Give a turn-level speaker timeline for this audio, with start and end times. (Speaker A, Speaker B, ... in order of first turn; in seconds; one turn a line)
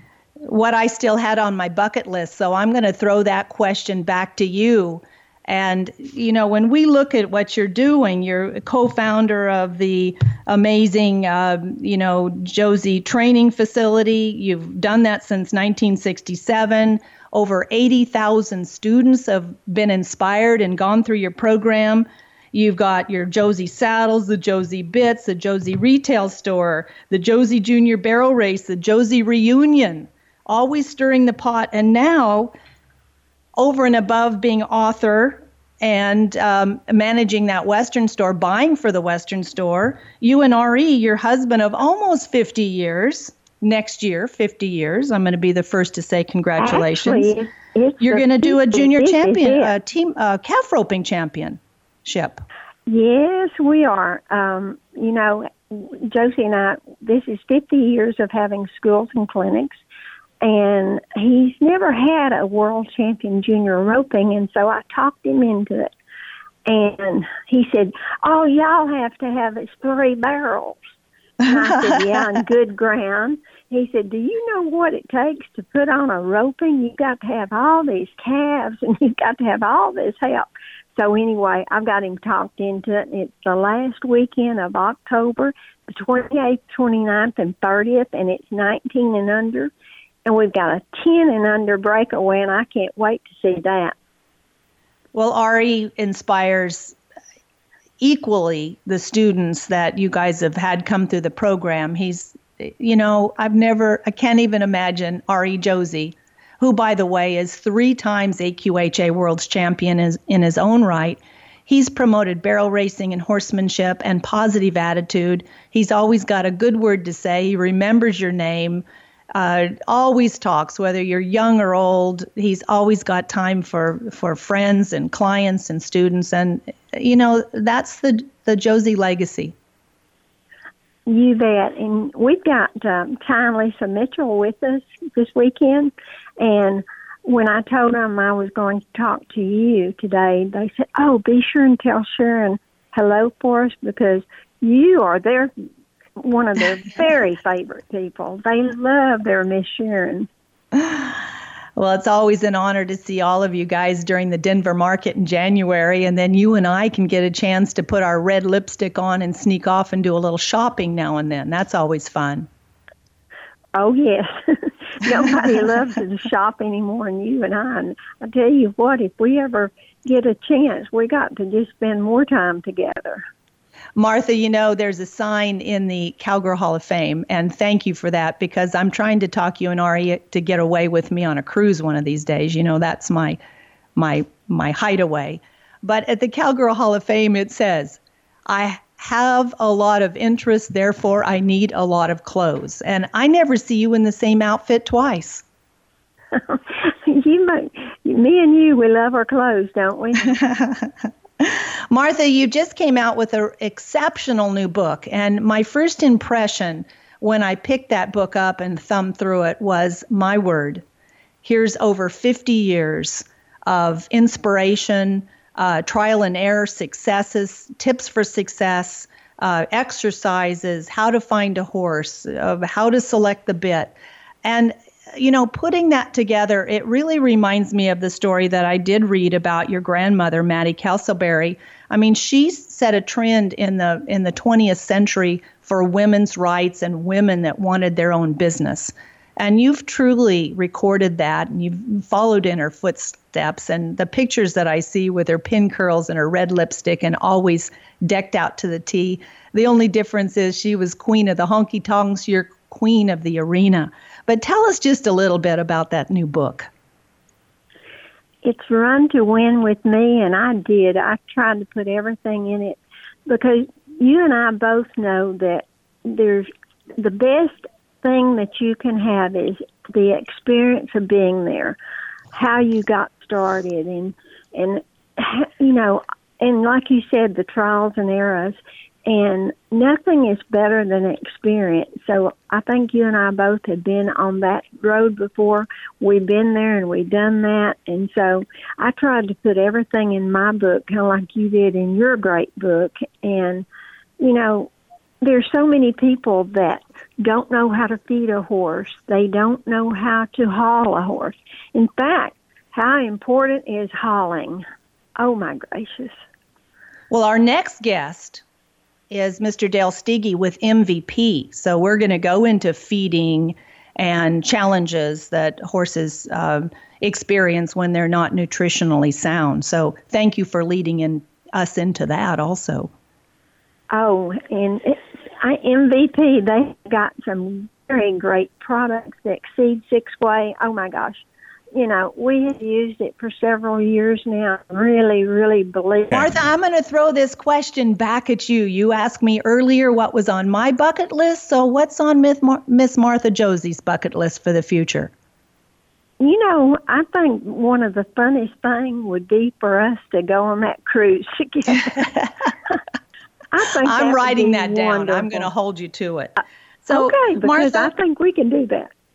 Speaker A: 0.4-32.5
Speaker A: 33.6-47.3
Speaker B: 46.6-49.7
Speaker A: 48.0-52.4
Speaker B: 52.9-59.7
Speaker B: 60.4-65.9
Speaker B: 66.7-70.8
Speaker B: 71.4-89.7
Speaker A: 71.6-72.2
Speaker B: 90.2-93.9
Speaker A: 95.1-96.9
Speaker A: 98.0-129.5
Speaker B: 131.1-145.5
Speaker B: 146.2-150.3
Speaker A: 150.7-151.2
Speaker A: 151.8-162.5
Speaker B: 163.7-173.2
Speaker A: 173.9-183.4
Speaker A: 183.9-195.4
Speaker B: 196.3-200.4
Speaker A: 200.3-210.8
Speaker A: 211.4-256.7
Speaker B: 258.4-271.8
Speaker B: 272.3-293.6
Speaker B: 294.2-294.7
Speaker B: 295.2-304.6
Speaker B: 305.2-306.1
Speaker A: 307.1-308.4
Speaker A: 309.1-322.9
Speaker B: 323.9-331.2
Speaker B: 331.7-336.3
Speaker A: 336.1-345.1
Speaker B: 346.2-352.2
Speaker B: 353.5-355.5
Speaker A: 353.8-357.9
Speaker B: 356.9-358.9